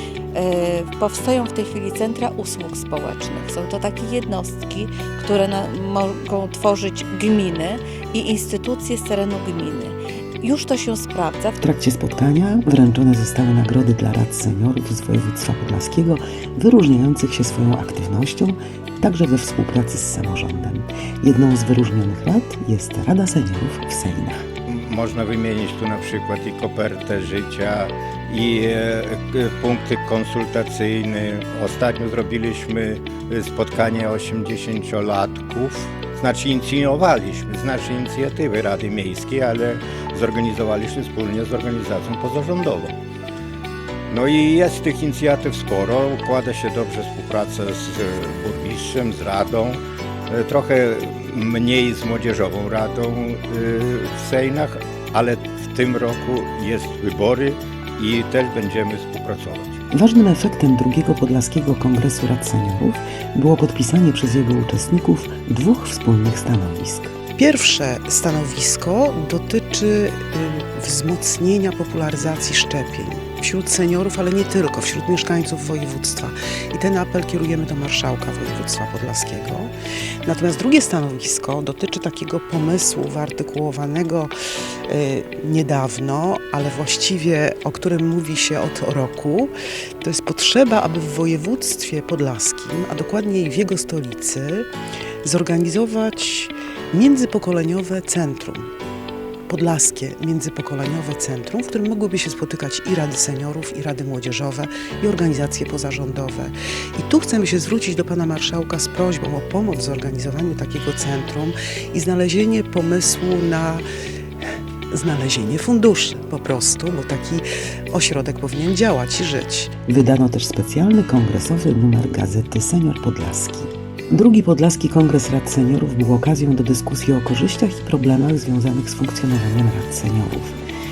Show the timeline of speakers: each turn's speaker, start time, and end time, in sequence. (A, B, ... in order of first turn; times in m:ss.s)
0:00.4-0:11.5 A
0:11.6-0:24.4 B
0:24.7-0:43.0 C
0:44.1-0:59.8 C
0:59.9-1:07.2 B
1:07.4-1:19.7 D
1:20.2-1:24.3 D
1:24.9-1:29.5 D
1:30.0-1:34.7 D
1:35.2-1:38.7 D
1:39.5-1:53.8 D
1:54.9-1:59.7 D
1:59.9-2:10.6 B